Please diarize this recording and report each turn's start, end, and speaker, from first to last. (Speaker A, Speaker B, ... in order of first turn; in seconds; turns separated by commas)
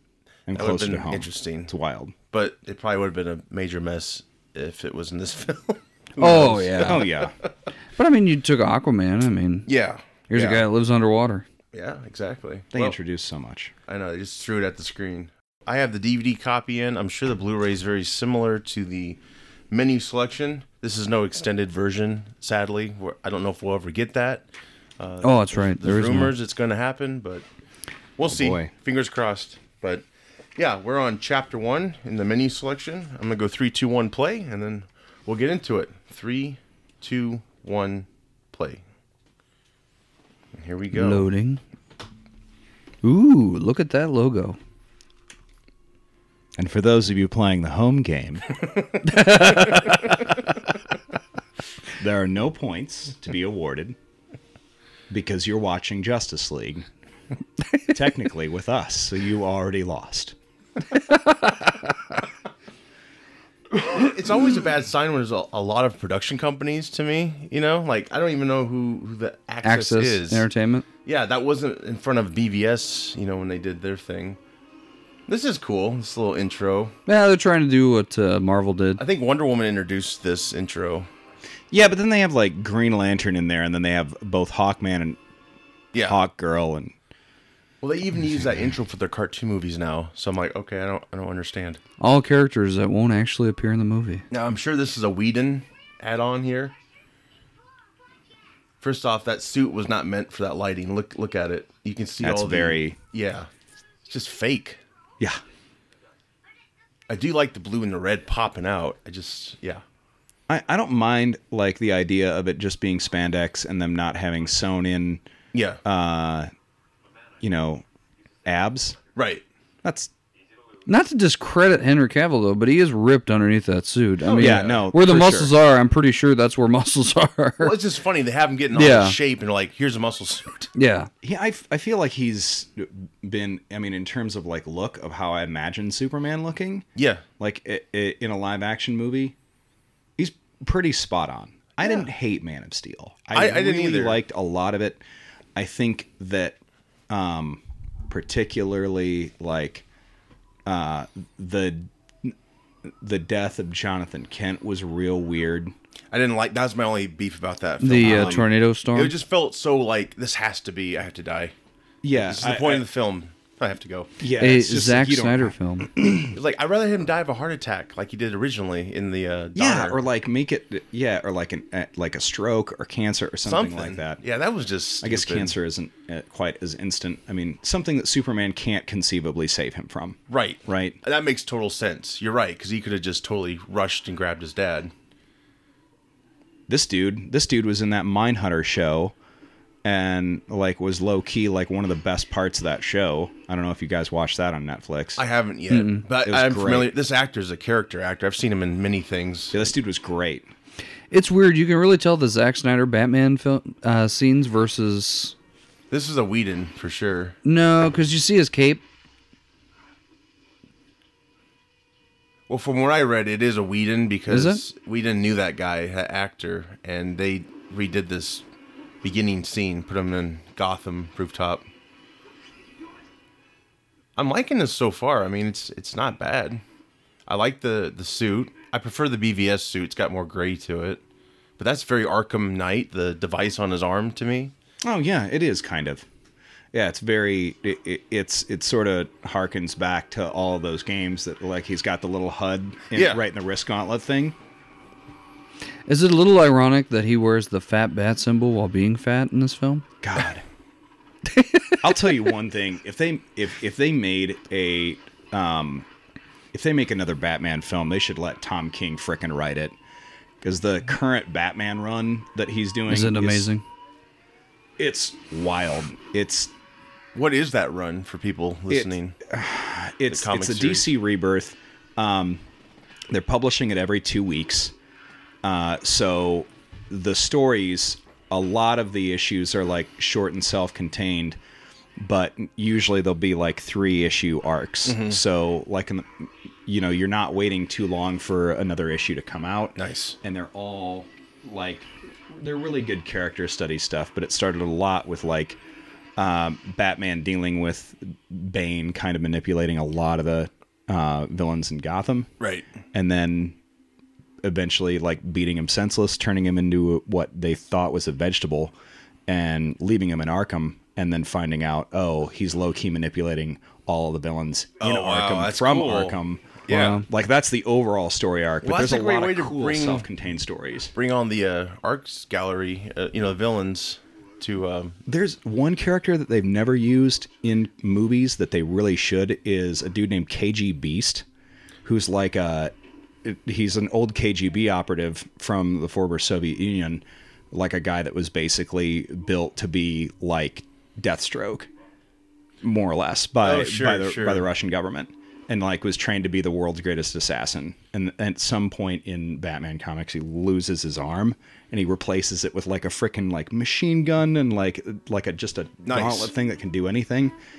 Speaker A: 0.5-2.1, Speaker B: 0.5-1.7, Speaker B: 2.3-7.3, Speaker C: 6.2-7.1, Speaker A: 6.3-7.3, Speaker C: 8.0-9.7, Speaker B: 9.7-10.6, Speaker C: 10.3-11.4, Speaker B: 11.7-12.9, Speaker A: 12.7-13.7, Speaker B: 13.9-19.2, Speaker B: 19.7-24.5, Speaker B: 25.0-27.4, Speaker C: 25.2-26.3, Speaker B: 28.2-38.8, Speaker A: 28.3-28.7, Speaker B: 40.5-41.2, Speaker C: 40.9-41.6, Speaker C: 43.0-44.6, Speaker A: 46.6-48.5, Speaker C: 49.0-50.1, Speaker A: 52.0-54.0, Speaker A: 55.1-56.9, Speaker A: 57.9-60.3, Speaker C: 61.1-61.4, Speaker B: 63.8-70.5, Speaker C: 69.6-70.8, Speaker B: 71.0-74.4, Speaker B: 75.3-76.9, Speaker C: 77.1-79.0, Speaker B: 79.0-81.1, Speaker A: 81.7-85.2, Speaker B: 85.9-86.2, Speaker A: 86.0-86.9, Speaker B: 87.8-91.8, Speaker C: 92.0-94.2, Speaker B: 94.3-96.7, Speaker B: 98.8-103.5, Speaker A: 102.2-103.0, Speaker B: 104.1-104.8, Speaker B: 107.1-109.8, Speaker A: 110.5-115.2, Speaker B: 115.5-115.8, Speaker A: 115.8-116.5, Speaker A: 117.4-117.8, Speaker A: 118.4-119.0, Speaker B: 119.1-119.4, Speaker A: 119.8-120.1, Speaker C: 120.8-127.7, Speaker B: 124.2-124.9, Speaker A: 124.4-125.5, Speaker B: 127.6-130.7, Speaker C: 128.7-129.2, Speaker C: 130.7-131.1, Speaker A: 131.2-136.8, Speaker B: 136.9-137.2, Speaker A: 137.4-139.3, Speaker A: 140.2-145.0, Speaker B: 143.3-144.2, Speaker A: 145.6-146.6, Speaker A: 147.1-149.8, Speaker A: 150.7-152.3, Speaker A: 152.8-155.7, Speaker B: 156.1-161.5, Speaker C: 157.8-159.1, Speaker A: 158.0-158.4, Speaker A: 162.0-162.8, Speaker B: 162.1-164.1, Speaker A: 164.2-166.3, Speaker C: 164.4-165.9, Speaker B: 166.2-170.0, Speaker A: 169.5-174.2, Speaker B: 173.4-175.5, Speaker A: 175.0-181.0, Speaker B: 180.3-184.9, Speaker A: 186.7-189.1, Speaker A: 189.8-195.2, Speaker B: 195.2-199.7, Speaker C: 195.7-196.0, Speaker A: 196.2-196.9, Speaker A: 199.5-200.5, Speaker C: 201.1-205.3, Speaker B: 205.9-207.3, Speaker C: 207.4-208.8, Speaker B: 212.5-218.4, Speaker C: 214.3-214.6, Speaker B: 219.0-221.7, Speaker B: 224.2-226.6, Speaker B: 227.3-231.0, Speaker B: 231.6-234.5, Speaker A: 234.8-236.0, Speaker A: 236.7-244.4, Speaker B: 242.9-243.2, Speaker C: 245.9-249.8, Speaker A: 250.0-250.4, Speaker C: 251.3-251.8, Speaker A: 251.8-255.8, Speaker A: 256.5-259.8, Speaker A: 260.4-263.5, Speaker C: 262.9-263.6, Speaker A: 264.8-266.5, Speaker B: 267.1-269.2, Speaker A: 268.7-272.4, Speaker B: 270.1-270.9, Speaker A: 273.1-274.7, Speaker A: 275.4-281.4, Speaker A: 282.0-295.6, Speaker B: 284.8-285.2, Speaker B: 289.8-290.2, Speaker A: 296.2-302.3, Speaker B: 302.4-302.7, Speaker A: 302.9-303.6, Speaker A: 304.4-308.7, Speaker A: 309.3-320.9, Speaker B: 314.8-317.0, Speaker C: 316.7-317.0, Speaker B: 318.6-320.1, Speaker B: 320.9-325.0, Speaker A: 325.1-331.2, Speaker A: 331.8-341.7, Speaker A: 342.6-357.3, Speaker B: 343.4-344.5, Speaker B: 355.8-356.3